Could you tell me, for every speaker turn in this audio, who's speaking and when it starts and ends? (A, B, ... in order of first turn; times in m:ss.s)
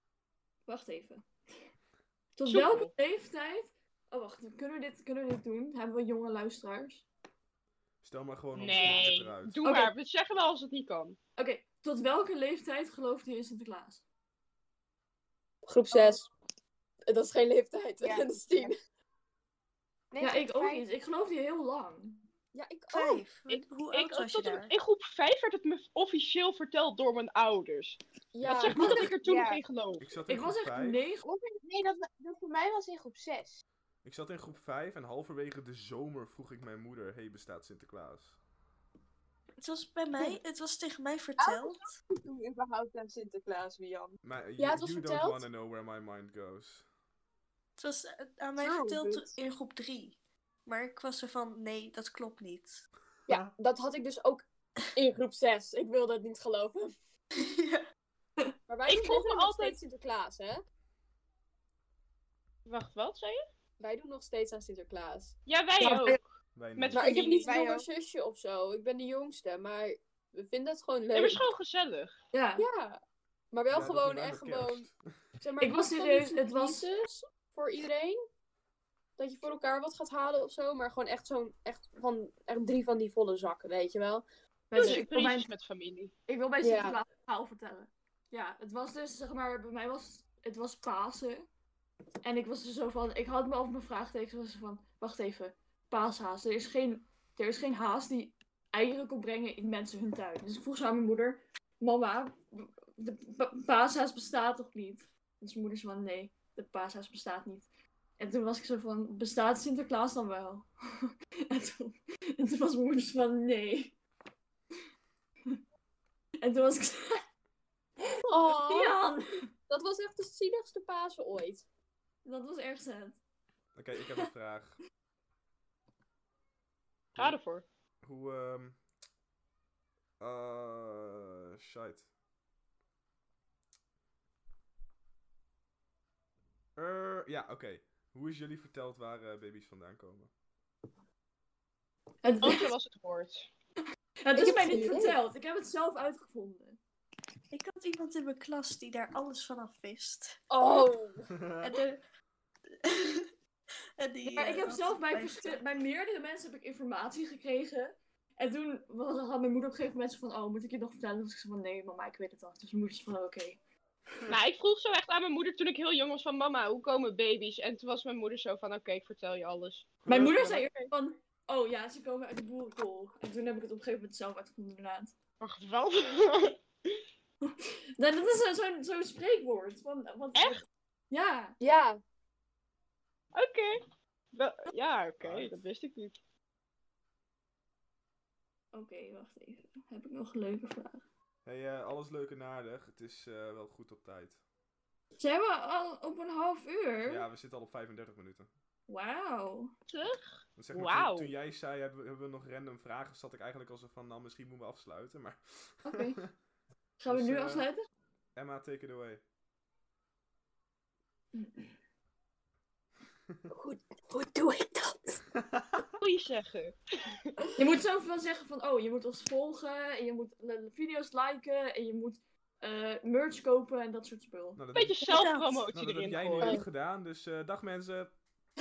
0:00.7-0:01.3 A
0:02.4-0:07.0 A
0:02.5-0:02.9 B
0:08.0-0:09.6 C
0:08.5-0:11.2 B
0:09.6-0:09.9 A
0:11.4-0:14.0 A
0:15.7-0:16.3 D
0:17.1-0:18.8 D
0:18.0-0:18.7 E
0:20.1-0:20.9 E
0:20.2-0:22.3 A
0:22.5-0:23.2 D
0:22.9-0:24.8 F
0:23.5-0:30.1 B
0:28.4-0:29.1 D
0:29.2-0:29.6 E
0:30.0-0:31.0 C
0:30.3-0:31.3 A
0:31.2-0:33.6 E
0:34.0-0:38.4 C
0:39.6-0:41.9 F
0:41.4-0:44.2 E
0:44.2-0:46.8 C
0:44.6-0:45.4 D
0:47.8-0:52.8 F
0:48.6-0:49.4 E
0:53.3-0:54.4 D
0:55.0-0:56.9 D
0:57.4-0:57.8 F
0:58.7-1:00.6 D
0:58.9-0:59.8 B
1:02.7-1:03.4 B
1:03.8-1:06.2 D
1:05.5-1:06.2 B
1:06.6-1:07.1 C
1:06.8-1:07.6 B
1:06.9-1:11.5 D
1:07.0-1:07.9 E
1:11.1-1:12.2 B
1:12.3-1:12.7 A
1:12.6-1:13.0 D
1:13.5-1:14.9 D
1:13.7-1:15.0 C
1:15.4-1:18.2 D
1:15.6-1:16.8 A
1:19.2-1:24.2 D
1:24.7-1:25.5 A
1:24.8-1:26.1 B
1:26.3-1:31.5 A
1:26.6-1:27.0 D
1:32.2-1:47.7 A
1:48.2-1:54.0 A
1:56.4-1:57.2 A
1:58.0-1:59.4 A
1:58.2-1:59.0 D
1:59.7-2:01.7 D
2:02.2-2:03.2 A
2:03.8-2:04.8 C
2:07.2-2:07.6 B
2:08.0-2:08.8 C
2:10.2-2:12.1 C
2:16.8-2:20.3 C
2:22.2-2:22.7 A
2:22.4-2:23.5 B
2:24.2-2:26.8 A
2:24.4-2:25.2 D
2:27.5-2:30.4 F
2:30.5-2:31.3 D
2:31.4-2:31.8 C
2:31.6-2:32.0 F
2:32.8-2:33.3 F
2:34.0-2:35.6 F
2:34.3-2:43.6 A
2:44.3-2:50.1 B
2:50.0-2:50.7 C
2:50.1-2:55.1 A
2:55.4-2:56.6 B
2:57.5-3:00.6 A
3:00.4-3:00.6 B
3:01.1-3:01.6 A
3:01.6-3:02.0 D
3:03.4-3:03.8 B
3:04.3-3:06.2 B
3:05.2-3:05.6 C
3:08.7-3:11.0 A
3:11.4-3:14.4 C
3:15.2-3:17.3 A
3:17.1-3:18.5 C
3:18.9-3:19.7 A
3:19.9-3:21.3 B
3:20.6-3:26.3 C
3:25.8-3:26.2 A
3:27.0-3:27.8 A
3:27.1-3:27.7 C
3:28.4-3:29.2 C
3:31.3-3:31.7 A
3:33.5-3:35.2 D
3:35.3-3:35.9 C
3:36.0-3:37.3 B
3:37.6-3:44.6 A
3:44.6-3:48.2 C
3:44.7-3:46.6 B
3:45.1-3:45.7 F